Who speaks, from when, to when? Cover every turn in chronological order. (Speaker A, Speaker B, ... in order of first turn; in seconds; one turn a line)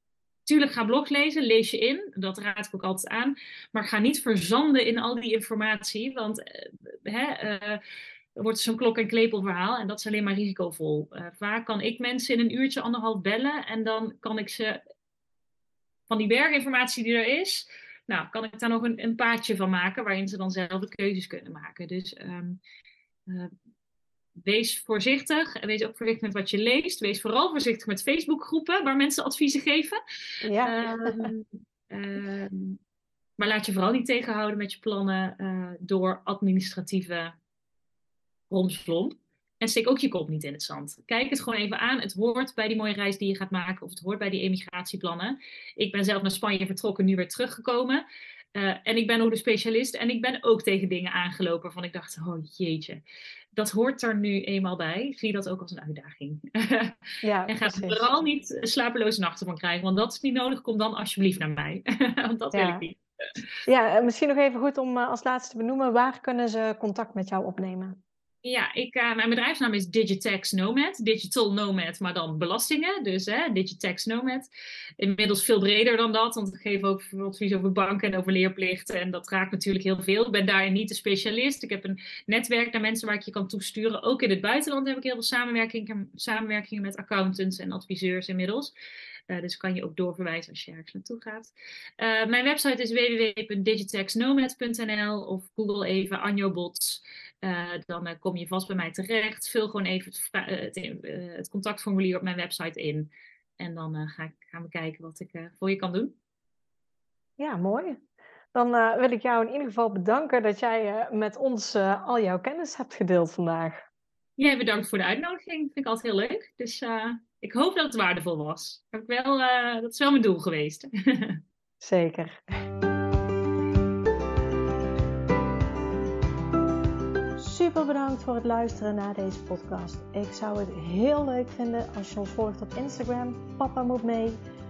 Speaker A: 0.5-7.8
Speaker A: 8.4-14.8
Speaker A: 16.1-22.6
Speaker A: 23.3-23.5
Speaker A: 24.4-30.0
Speaker B: 30.4-31.3
Speaker A: 30.6-32.8
Speaker A: 33.4-37.4
Speaker A: 38.5-48.0
Speaker A: 48.5-53.0
Speaker A: 53.5-57.0
Speaker B: 57.2-58.0
Speaker A: 57.5-63.0
Speaker B: 62.5-62.9
Speaker B: 63.7-68.0
Speaker A: 68.4-88.7
Speaker A: 89.3-106.1
Speaker B: 107.4-108.0
Speaker B: 108.5-113.8
Speaker A: 114.4-121.4
Speaker B: 121.8-122.4
Speaker B: 127.4-134.4